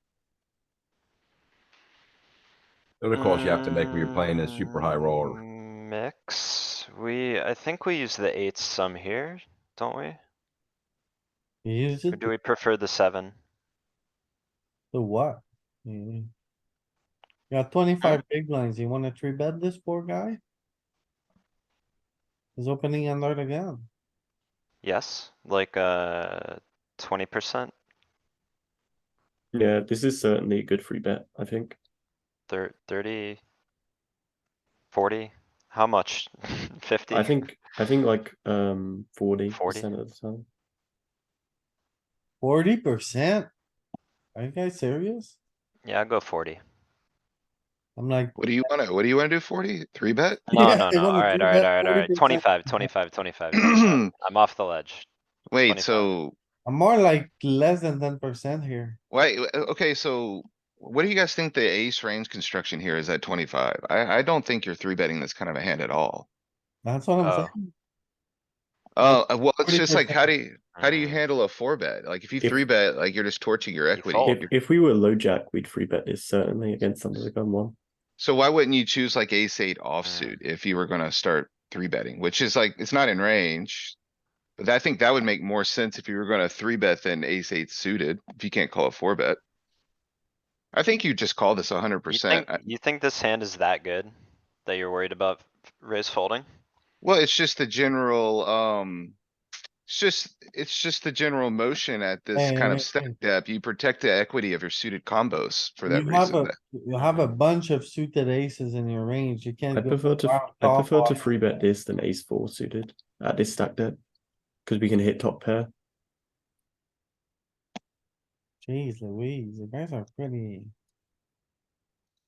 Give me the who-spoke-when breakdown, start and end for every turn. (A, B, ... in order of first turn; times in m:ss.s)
0:03.0-0:05.4 A
0:03.1-0:10.2 B
0:11.6-0:12.3 C
0:12.1-0:13.3 B
0:14.9-0:16.3 C
0:17.5-0:20.4 C
0:22.6-0:23.9 C
0:24.8-0:27.7 B
0:29.5-0:31.8 D
0:32.5-0:33.4 B
0:34.9-0:37.4 B
0:37.1-0:40.5 D
0:39.5-0:39.9 B
0:42.4-0:43.5 C
0:44.3-0:45.4 C
0:45.8-0:46.6 B
0:48.0-0:48.7 C
0:48.4-0:50.5 E
0:50.5-0:55.1 B
0:50.5-0:52.9 C
0:53.6-0:54.1 E
0:55.5-0:56.3 E
0:55.6-0:56.1 B
0:56.6-0:59.0 C
0:59.1-1:06.3 E
1:06.8-1:07.7 C
1:07.2-1:07.5 B
1:09.0-1:14.5 E
1:09.0-1:10.3 C
1:10.8-1:11.2 B
1:13.9-1:14.4 B
1:14.2-1:17.8 D
1:18.2-1:24.0 E
1:20.0-1:20.4 B
1:24.6-1:29.4 E
1:30.7-1:32.6 E
1:32.1-1:34.1 B
1:34.6-1:36.4 B
1:37.0-1:39.2 E
1:39.9-1:46.5 E
1:42.3-1:43.1 C
1:45.9-1:51.6 C
1:46.9-1:47.3 B
1:49.7-1:54.0 D
1:54.6-1:55.7 D
1:58.6-2:00.7 C